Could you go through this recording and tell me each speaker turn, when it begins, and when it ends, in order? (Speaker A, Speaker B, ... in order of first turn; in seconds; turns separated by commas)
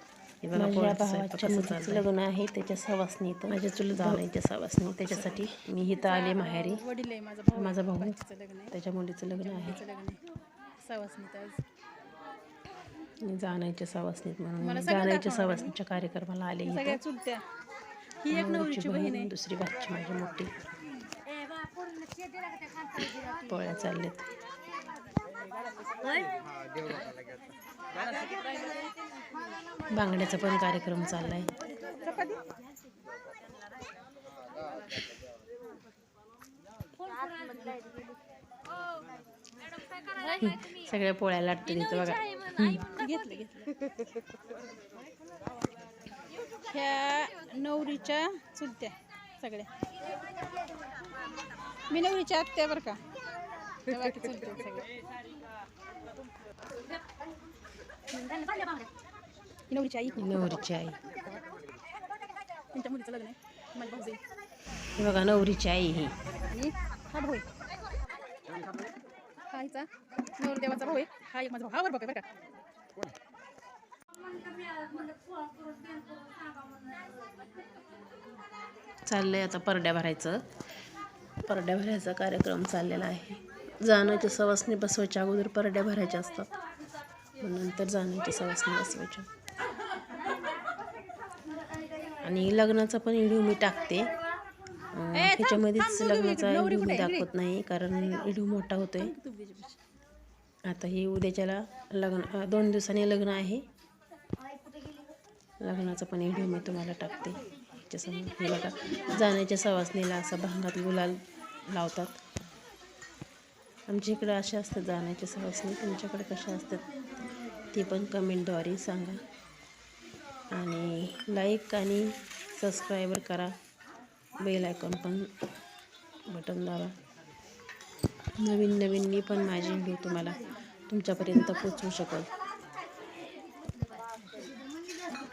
Speaker A: 0.4-2.0, Speaker B: 0.5-6.8, Speaker A: 3.5-4.2, Speaker C: 5.9-8.7, Speaker B: 7.5-8.2, Speaker B: 8.7-9.8, Speaker C: 9.4-10.2, Speaker C: 10.8-11.6, Speaker B: 13.2-17.0, Speaker C: 14.6-15.8, Speaker C: 16.6-17.4, Speaker C: 18.2-19.3, Speaker B: 18.3-20.5, Speaker B: 23.4-24.3, Speaker B: 29.9-31.5, Speaker C: 31.8-32.5, Speaker B: 40.4-42.8, Speaker C: 42.8-43.7, Speaker C: 46.6-49.7, Speaker C: 51.9-53.0, Speaker C: 53.9-54.9, Speaker C: 58.2-58.9, Speaker C: 59.7-60.6, Speaker B: 60.2-61.0, Speaker C: 62.7-64.2, Speaker B: 65.0-66.1, Speaker C: 66.5-67.5, Speaker C: 69.5-72.2, Speaker B: 79.1-80.5, Speaker B: 81.5-86.5, Speaker B: 87.4-89.2, Speaker B: 92.2-94.1, Speaker B: 94.9-99.1, Speaker C: 95.1-97.3, Speaker C: 98.9-99.8, Speaker B: 100.7-103.6, Speaker B: 105.6-111.2, Speaker B: 111.7-112.2, Speaker B: 113.9-117.0, Speaker B: 117.7-119.2, Speaker B: 120.5-123.5, Speaker B: 124.4-125.3, Speaker B: 126.3-126.9, Speaker B: 128.4-132.3